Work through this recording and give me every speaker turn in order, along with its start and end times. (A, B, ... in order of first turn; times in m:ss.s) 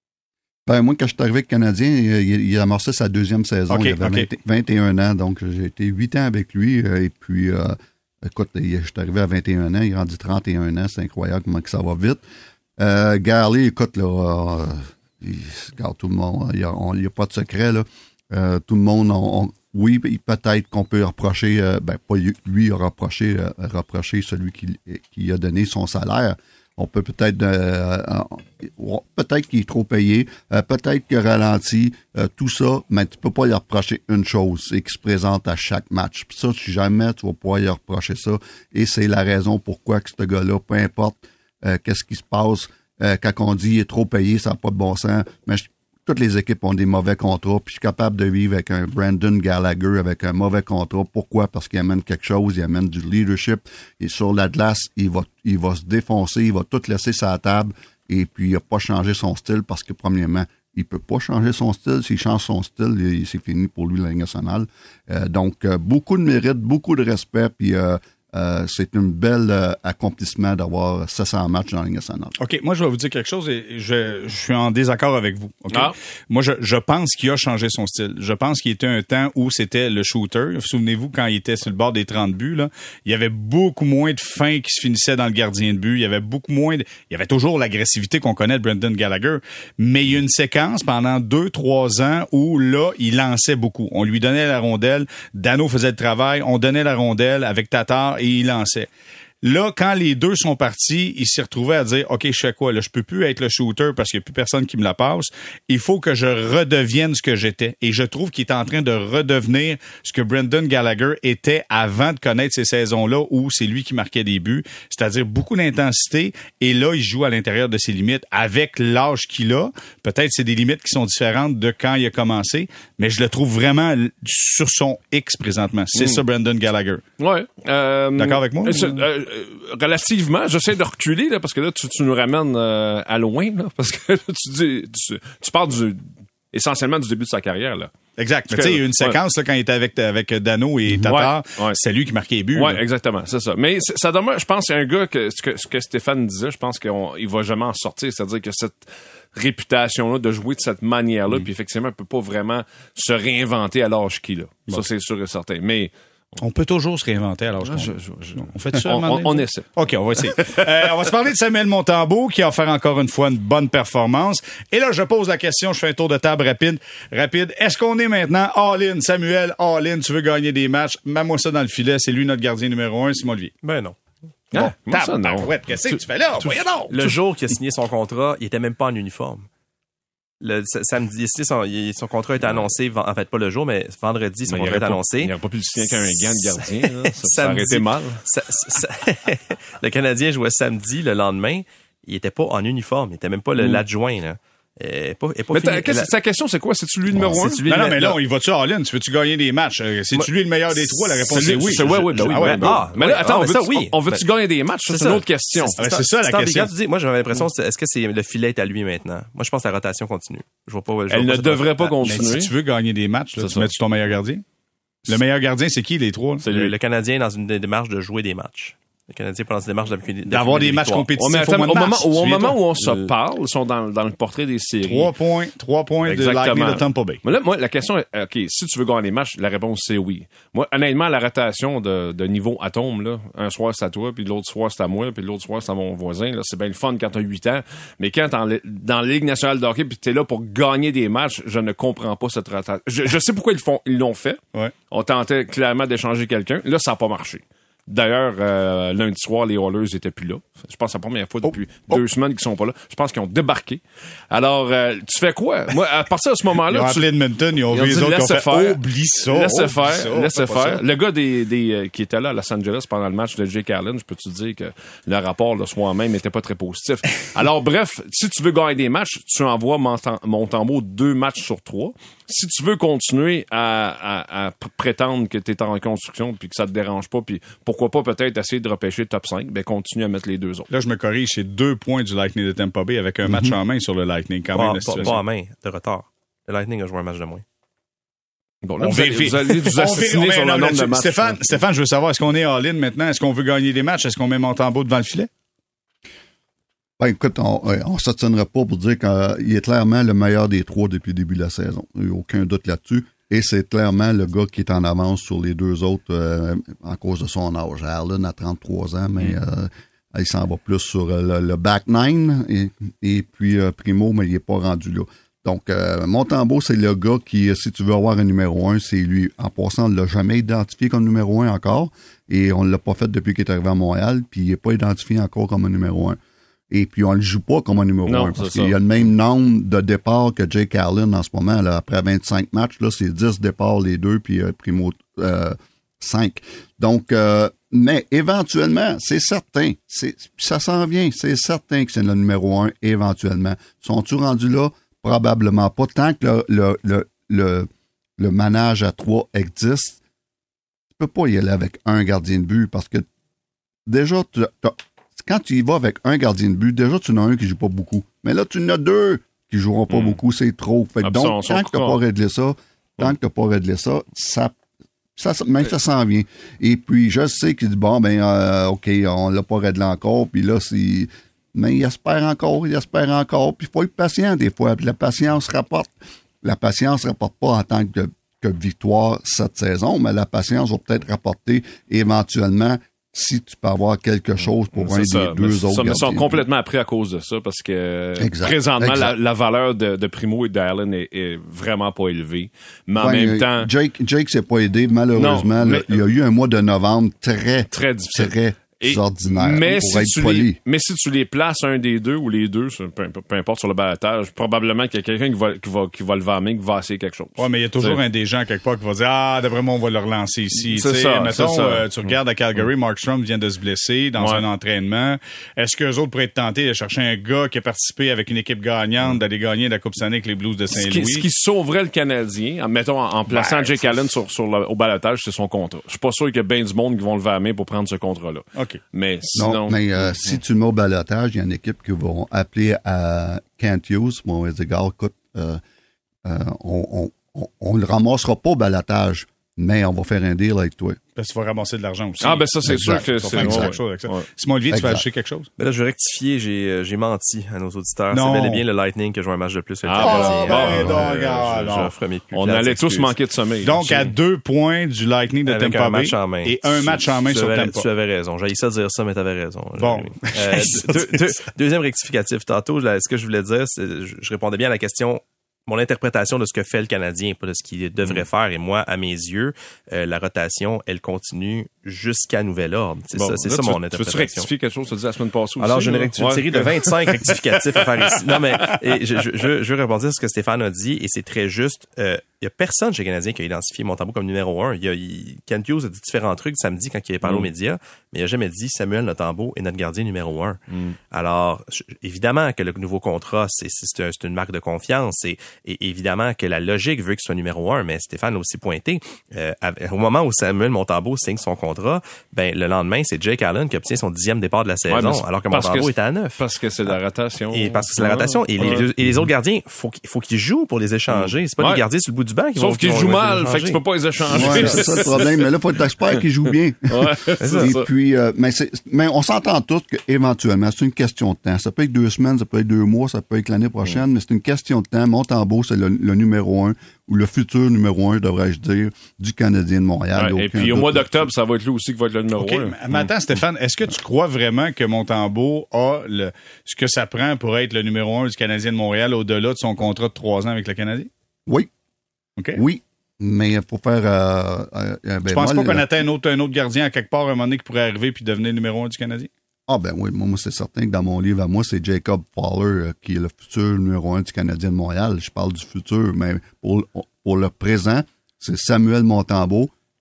0:00.7-0:12.2 A
0:03.7-0:04.3 B
0:12.8-1:12.4 A
1:12.4-1:38.9 B
1:39.4-2:07.0 B
2:06.0-2:06.2 C
2:07.2-2:17.9 C
2:08.2-2:09.0 B
2:18.2-2:22.8 B
2:18.5-2:19.2 C
2:20.9-2:21.8 C
2:22.6-2:35.9 C
2:36.4-2:53.5 B
2:37.6-2:40.6 C
2:53.6-2:54.0 D
2:54.5-2:57.2 C
2:54.5-2:56.9 B
2:56.9-2:59.5 D
3:00.4-3:16.1 D
3:04.5-3:08.2 C
3:13.6-3:13.8 C
3:15.5-3:17.7 C
3:17.1-3:18.2 D
3:17.6-3:22.8 B
3:20.1-3:24.2 D
3:21.3-3:25.8 C
3:24.9-3:31.9 D
3:25.8-3:26.7 B
3:31.1-3:32.5 C
3:32.0-3:34.4 B
3:33.4-3:33.7 C
3:35.1-3:36.7 B
3:36.4-3:41.1 D
3:36.4-3:36.7 C
3:40.3-3:43.1 B
3:41.2-3:45.1 C
3:44.8-3:47.2 B
3:46.0-4:17.1 C
4:11.4-4:12.0 B
4:16.7-4:20.8 B
4:17.7-4:40.7 C
4:40.7-4:45.2 B
4:44.5-4:47.4 D
4:48.6-4:51.6 C
4:48.8-4:55.3 B
4:57.0-5:26.2 A
5:26.7-5:50.0 A
5:28.1-5:29.1 C
5:51.0-5:53.1 A
5:53.9-6:04.6 A
5:59.9-6:00.2 C
6:01.0-6:02.0 C
6:05.2-6:26.4 A
6:24.7-6:33.7 C
6:28.2-6:29.2 A
6:33.0-6:40.6 A
6:35.2-6:36.0 C
6:37.7-6:48.0 C
6:47.4-7:01.3 B
6:50.6-6:52.6 C
6:54.2-6:54.4 C
7:00.7-7:10.4 C
7:03.3-7:03.7 B
7:09.4-7:15.6 A
7:16.2-7:21.0 A
7:21.2-7:25.5 B
7:22.2-7:24.2 C
7:22.7-7:23.7 A
7:24.7-7:25.0 A
7:25.6-7:33.2 D
7:28.1-7:28.6 B
7:29.8-7:34.1 C
7:30.0-7:31.9 B
7:33.6-7:37.9 B
7:35.5-7:54.5 D
7:39.8-7:41.3 B
7:53.1-7:59.2 C
7:55.6-8:10.6 D
8:07.2-8:07.5 C
8:10.7-8:11.0 C
8:11.1-8:27.0 D
8:24.9-8:28.9 C
8:27.5-8:33.8 D
8:31.1-8:31.8 C
8:32.6-8:35.5 C
8:34.3-8:51.2 A
8:34.4-8:35.0 D
8:36.9-8:37.9 C
8:37.4-8:37.7 D
8:50.2-8:52.8 C
8:52.4-9:01.1 B
9:02.6-9:05.8 A
9:05.3-9:09.3 B
9:09.7-9:19.7 A